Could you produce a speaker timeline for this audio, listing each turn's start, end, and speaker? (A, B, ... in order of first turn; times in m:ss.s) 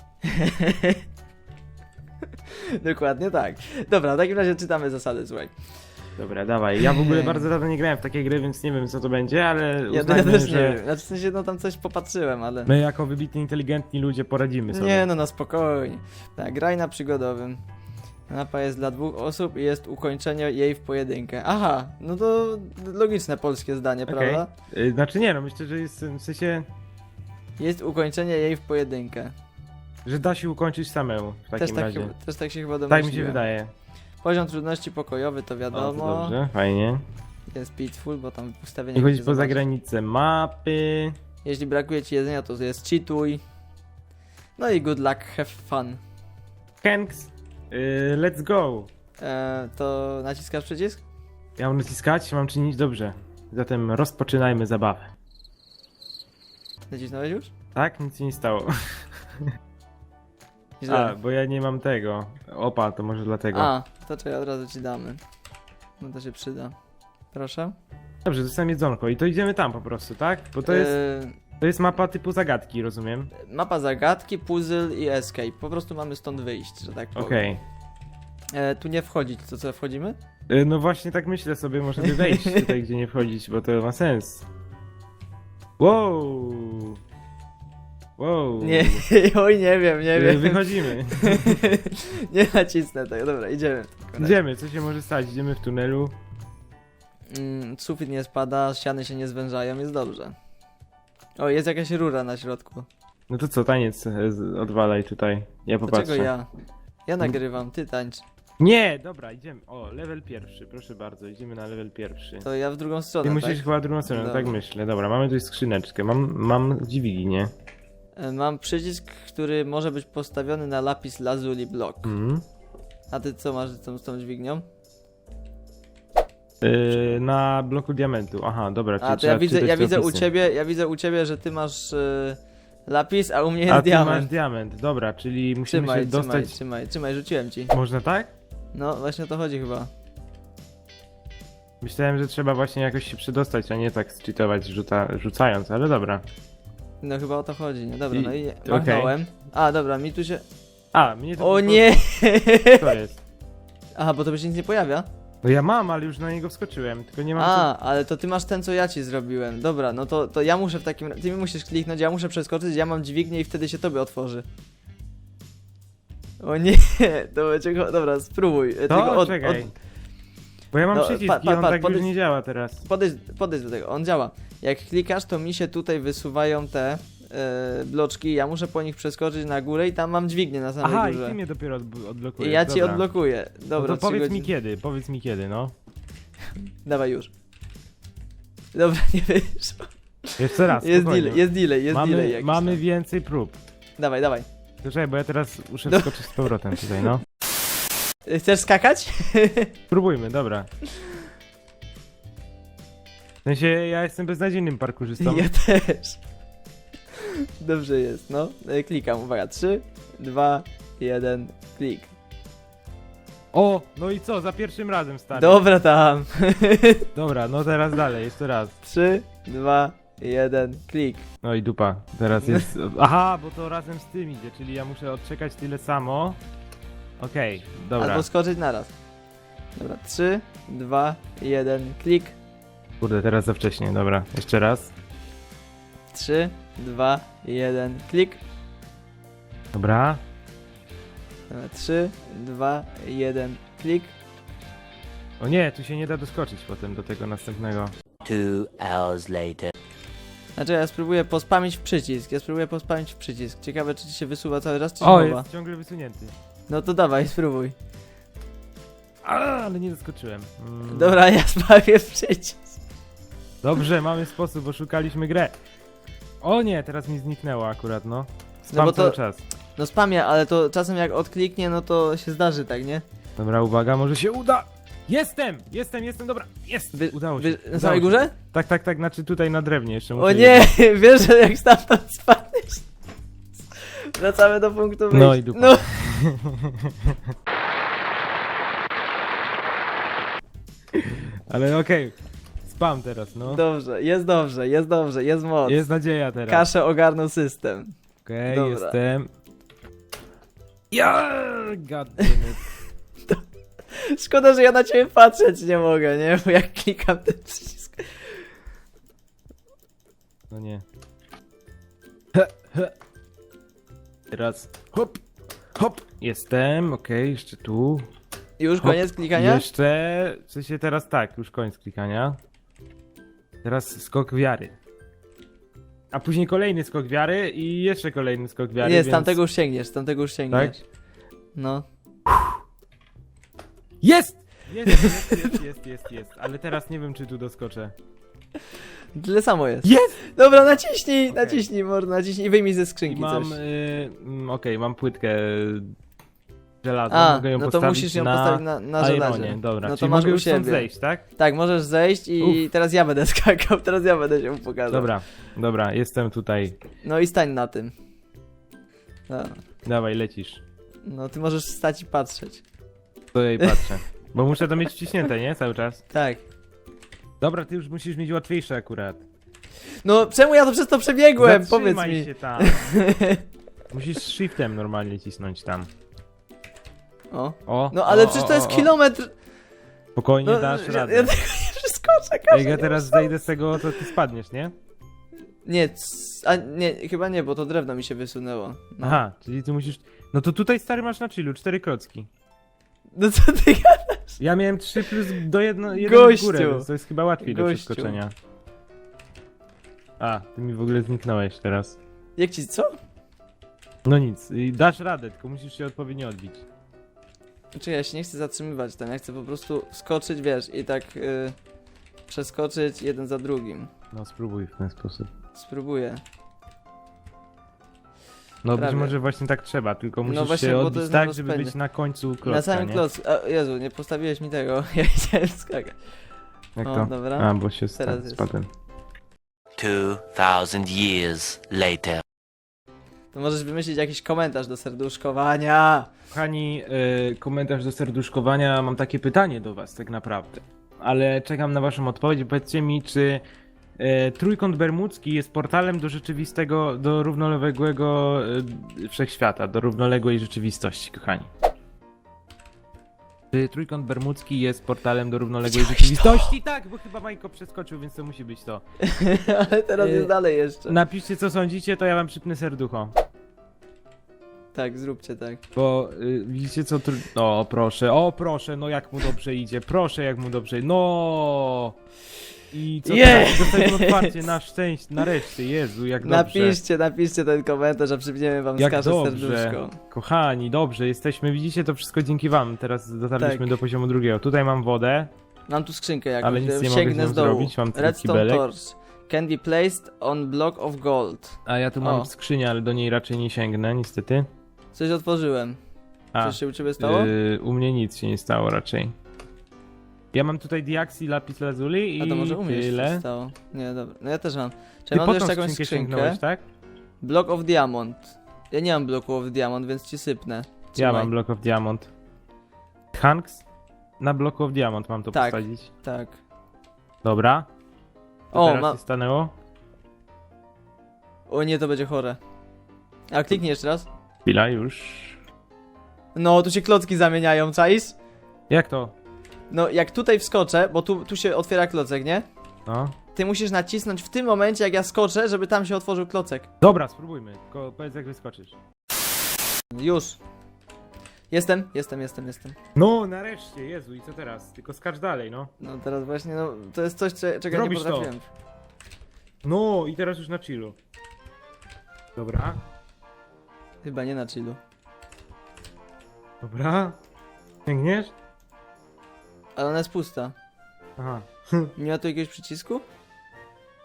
0:00.2-0:01.0 A
0:02.5-0:05.5 A
0:06.2-0:10.8 B
0:06.8-0:07.5 A
0:09.9-0:12.7 A
0:12.7-0:15.1 B
0:14.7-0:17.6 A
0:18.3-0:24.5 A
0:24.1-0:26.7 B
0:27.6-0:29.3 A
0:30.0-0:32.1 B
0:31.6-0:33.4 A
0:32.9-0:33.7 B
0:34.2-0:36.4 A
0:35.7-0:37.0 B
0:37.5-0:39.6 A
0:39.0-0:41.2 B
0:41.4-0:43.4 A
0:44.6-0:46.0 A
0:46.8-0:48.9 B
0:49.2-0:51.0 A
0:51.6-0:55.1 B
0:56.9-0:57.5 A
0:57.8-0:59.5 B
1:00.8-1:01.2 A
1:00.9-1:03.7 B
1:03.5-1:05.2 A
1:06.0-1:06.8 A
1:07.3-1:07.8 A
1:08.2-1:11.0 B
1:10.7-1:11.4 A
1:11.6-1:13.3 B
1:13.3-1:17.5 A
1:17.2-1:17.6 B
1:18.5-1:20.2 A
1:20.5-1:24.5 B
1:22.0-1:22.7 A
1:25.8-1:27.0 B
1:28.2-1:29.0 B
1:28.6-1:34.4 A
1:30.1-1:31.6 B
1:34.2-1:36.2 B
1:37.3-1:40.4 A
1:41.4-1:42.9 A
1:43.3-1:46.3 B
1:45.9-1:46.5 A
1:47.1-1:48.2 A
1:48.6-1:52.5 B
1:52.4-1:54.6 A
1:53.2-1:57.5 B
1:58.2-2:02.1 A
2:02.0-2:02.4 B
2:03.1-2:04.6 A
2:06.6-2:10.3 B
2:09.0-2:14.3 A
2:13.7-2:16.6 B
2:15.7-2:17.7 A
2:17.7-2:18.3 B
2:18.7-2:19.9 A
2:21.8-2:26.2 B
2:27.0-2:30.4 A
2:28.1-2:29.1 B
2:30.9-2:33.2 B
2:31.4-2:33.0 A
2:34.0-2:35.1 A
2:35.4-2:37.7 B
2:37.4-2:44.4 A
2:46.4-2:49.7 A
2:48.9-2:49.7 B
2:50.7-2:52.8 B
2:50.9-2:52.1 A
2:52.8-3:01.4 A
3:00.8-3:03.1 B
3:02.4-3:04.5 A
3:03.8-3:05.7 B
3:06.8-3:07.3 A
3:08.7-3:12.8 A
3:10.4-3:13.6 B
3:14.0-3:14.5 A
3:14.8-3:17.2 B
3:15.9-3:16.8 A
3:18.3-3:19.8 A
3:19.9-3:20.7 B
3:23.4-3:25.5 B
3:25.2-3:26.2 A
3:27.2-3:32.1 A
3:33.5-3:35.6 B
3:35.4-3:37.1 A
3:37.2-3:38.8 B
3:38.8-3:41.3 A
3:41.4-3:46.4 B
3:42.4-3:42.7 A
3:47.2-3:48.3 B
3:48.0-3:48.9 A
3:49.8-3:52.4 A
3:53.0-3:54.9 B
3:56.1-3:58.4 A
3:59.7-4:00.2 B
4:01.5-4:04.2 A
4:05.4-4:07.9 B
4:08.2-4:09.7 C
4:10.6-4:15.5 A
4:15.0-4:16.4 B
4:16.7-4:17.8 A
4:19.2-4:21.2 B
4:20.9-4:22.8 A
4:23.6-4:25.6 B
4:26.4-4:29.4 B
4:28.7-4:29.2 A
4:29.8-4:33.0 A
4:33.4-4:40.7 B
4:36.9-4:38.3 A
4:40.2-4:42.9 A
4:43.8-4:46.2 A
4:45.1-4:47.3 B
4:51.0-4:53.6 B
4:53.5-4:55.8 A
4:55.6-4:56.7 B
4:56.5-4:57.9 A
4:58.2-4:59.3 B
4:58.5-4:59.0 A
5:00.9-5:02.7 B
5:03.3-5:08.3 A
5:10.5-5:10.8 B
5:12.3-5:12.9 B
5:14.3-5:15.2 B
5:15.8-5:18.1 B
5:18.6-5:19.6 A
5:18.8-5:22.4 B
5:23.6-5:24.8 B
5:26.1-5:29.4 B
5:28.8-5:30.8 A
5:30.5-5:30.8 B
5:31.6-5:31.8 A
5:34.0-5:37.9 B
5:34.9-5:35.6 A
5:39.2-5:43.6 A
5:39.8-5:40.2 B
5:41.3-5:41.7 B
5:43.1-5:45.9 B
5:46.8-5:51.2 B
5:47.1-5:55.1 A
5:54.9-5:56.8 B
5:57.0-5:57.9 A
5:59.3-5:59.6 A
5:59.8-6:00.6 B
6:01.0-6:02.6 A
6:03.3-6:06.0 B
6:03.6-6:03.8 A
6:06.1-6:06.4 A
6:07.4-6:09.2 B
6:10.0-6:13.4 A
6:11.4-6:13.1 B
6:13.9-6:15.9 B
6:17.3-6:19.3 A
6:17.7-6:18.9 B
6:20.2-6:21.3 B
6:20.4-6:23.3 A
6:22.5-6:24.7 B
6:25.6-6:29.2 A
6:29.0-6:32.3 B
6:33.2-6:34.4 A
6:34.4-6:38.3 B
6:35.9-6:36.9 A
6:37.4-6:38.2 A
6:40.2-6:42.0 B
6:42.4-6:42.9 A
6:44.0-6:46.6 B
6:47.8-6:51.6 A
6:52.3-6:53.9 A
6:54.1-6:55.3 B
6:55.5-6:56.2 A
6:58.6-7:03.0 B
6:58.8-6:59.1 A
7:00.2-7:01.8 A
7:02.4-7:06.0 A
7:06.8-7:08.7 B
7:06.8-7:08.5 A
7:09.8-7:12.2 C
7:13.3-7:16.1 A
7:16.3-7:23.4 B
7:24.0-7:31.5 B
7:33.5-7:38.8 B
7:35.6-7:36.5 A
7:39.0-7:41.0 A
7:40.0-7:40.3 B
7:40.9-7:43.1 B
7:44.7-7:45.6 A
7:45.7-7:52.0 B
7:52.7-7:56.8 B
7:53.1-7:54.6 A
7:56.2-8:00.0 A
7:58.8-8:05.3 B
8:03.4-8:03.8 A
8:05.7-8:12.3 A
8:06.4-8:08.6 B
8:11.7-8:14.5 B
8:14.9-8:15.8 A
8:16.3-8:19.2 B
8:16.4-8:17.3 A
8:20.3-8:23.2 B
8:22.2-8:26.4 A
8:25.1-8:26.6 B
8:27.2-8:31.3 A
8:31.0-8:32.1 B
8:33.1-8:33.6 B
8:34.2-8:35.9 B
8:35.3-8:36.4 A
8:37.2-8:37.7 B
8:38.5-8:39.0 A
8:38.5-8:39.5 B
8:41.5-8:42.4 A
8:43.3-8:44.1 A
8:44.5-8:45.4 B
8:46.4-8:48.2 A
8:48.7-8:49.2 B
8:49.7-8:52.4 A
8:52.9-8:53.2 B
8:53.4-8:56.7 A
8:56.8-8:58.8 B
8:59.9-9:00.4 A
9:01.5-9:02.8 A
9:03.0-9:05.7 B
9:05.8-9:08.5 A
9:07.7-9:08.3 B
9:09.6-9:11.0 B
9:12.4-9:12.8 B
9:14.0-9:14.8 A
9:16.6-9:17.2 B
9:17.9-9:18.3 B
9:19.8-9:20.6 A
9:21.2-9:21.9 B
9:22.0-9:23.0 A